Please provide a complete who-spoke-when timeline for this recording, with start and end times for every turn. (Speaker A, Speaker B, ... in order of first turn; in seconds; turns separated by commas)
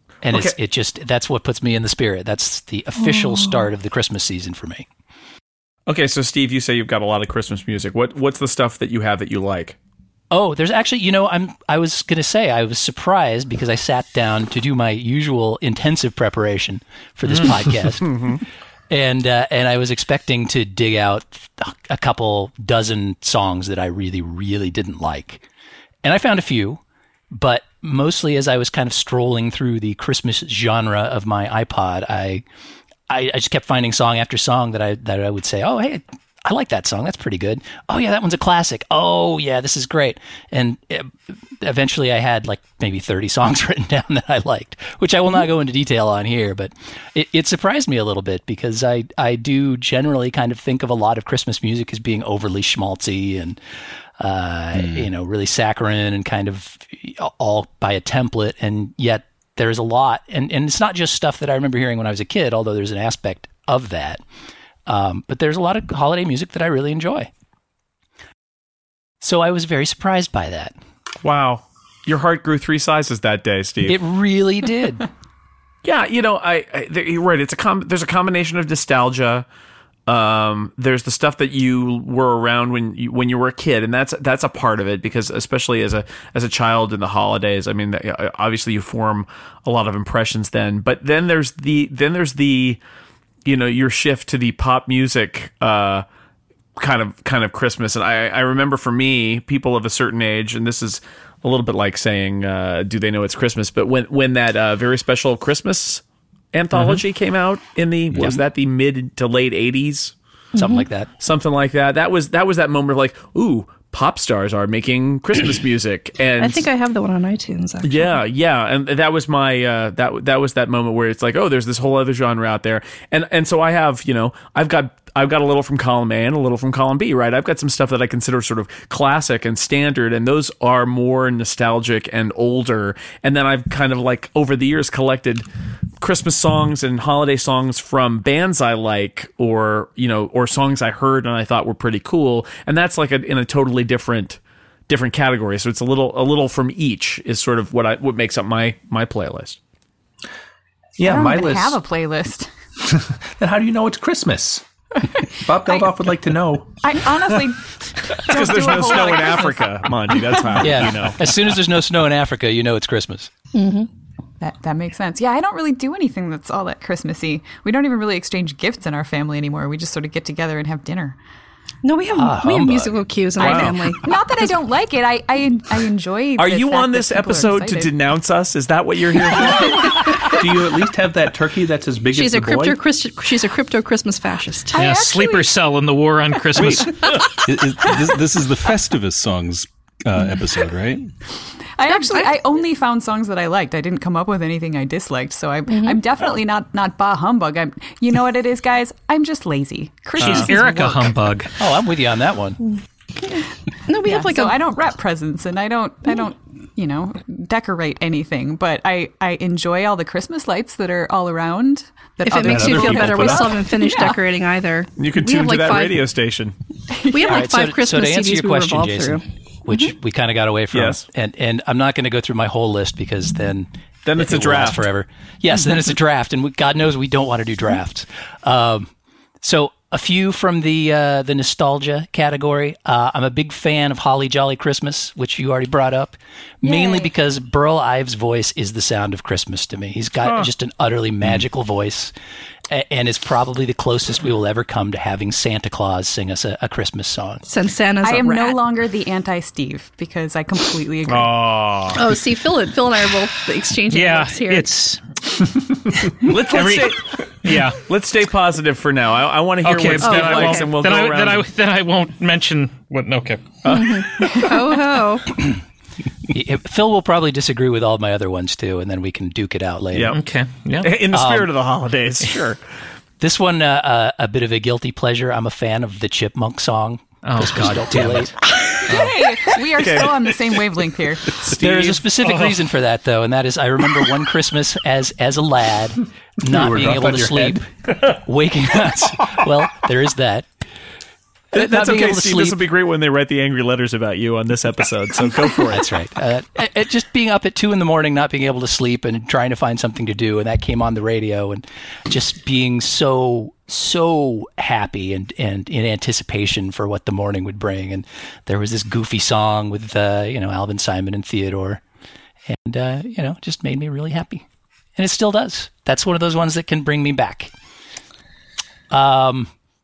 Speaker A: 0.2-4.8, Speaker B: 0.3-0.6, Speaker C: 3.1-3.5, Speaker B: 5.9-9.8, Speaker A: 10.3-18.3, Speaker A: 18.9-25.4, Speaker A: 26.0-26.8, Speaker A: 27.3-32.4, Speaker A: 33.1-53.6, Speaker A: 54.2-64.2, Speaker A: 64.8-67.3, Speaker A: 69.2-70.7, Speaker B: 71.2-74.0, Speaker A: 73.8-75.1, Speaker B: 75.8-79.5, Speaker B: 80.1-92.8, Speaker B: 93.4-96.0, Speaker B: 96.8-110.1, Speaker A: 110.5-111.1, Speaker C: 110.5-110.8, Speaker B: 111.2-116.7, Speaker C: 116.4-118.2, Speaker B: 117.8-135.4, Speaker B: 136.0-149.6, Speaker D: 151.0-151.8, Speaker E: 151.0-152.5, Speaker D: 152.8-154.6, Speaker E: 155.2-155.9, Speaker D: 155.4-156.8, Speaker E: 156.8-160.6, Speaker B: 158.3-161.2, Speaker A: 160.6-163.3, Speaker C: 163.5-163.9, Speaker E: 164.4-171.2, Speaker C: 171.8-174.2, Speaker A: 172.1-173.0, Speaker E: 173.4-177.9, Speaker B: 173.4-173.8, Speaker B: 176.4-179.8, Speaker D: 180.2-182.8, Speaker C: 182.1-184.8, Speaker E: 184.7-185.6, Speaker F: 184.8-186.9, Speaker G: 186.6-191.1, Speaker E: 191.8-201.2, Speaker C: 191.8-192.4, Speaker C: 195.7-196.0, Speaker F: 200.2-201.5, Speaker A: 201.6-202.6, Speaker C: 203.2-204.6, Speaker E: 204.0-214.2, Speaker C: 212.2-216.0, Speaker D: 212.5-213.4, Speaker B: 215.0-216.6, Speaker E: 216.9-217.4, Speaker C: 217.1-219.9, Speaker A: 217.3-228.9, Speaker B: 220.7-221.0, Speaker B: 224.0-224.8, Speaker A: 229.4-242.1, Speaker E: 236.6-237.1, Speaker A: 242.7-247.4, Speaker C: 247.4-248.6, Speaker E: 248.0-251.4, Speaker B: 251.1-252.1, Speaker C: 251.9-254.7, Speaker F: 253.9-255.0, Speaker B: 256.2-261.4, Speaker F: 256.5-256.9, Speaker F: 257.4-257.8, Speaker F: 259.6-263.5, Speaker C: 260.0-260.7, Speaker B: 263.6-264.0, Speaker C: 263.7-265.4, Speaker A: 266.3-270.1, Speaker B: 269.9-270.2, Speaker F: 270.1-270.9, Speaker B: 270.8-272.6, Speaker A: 271.1-271.5, Speaker A: 273.2-278.3, Speaker F: 277.2-278.3, Speaker E: 278.9-281.4, Speaker B: 279.8-280.2, Speaker B: 281.4-282.0, Speaker A: 281.5-290.5, Speaker D: 286.4-287.6, Speaker B: 291.5-295.8, Speaker A: 291.5-292.6, Speaker A: 295.7-311.8, Speaker A: 312.5-314.4, Speaker A: 315.0-317.5, Speaker A: 318.9-319.5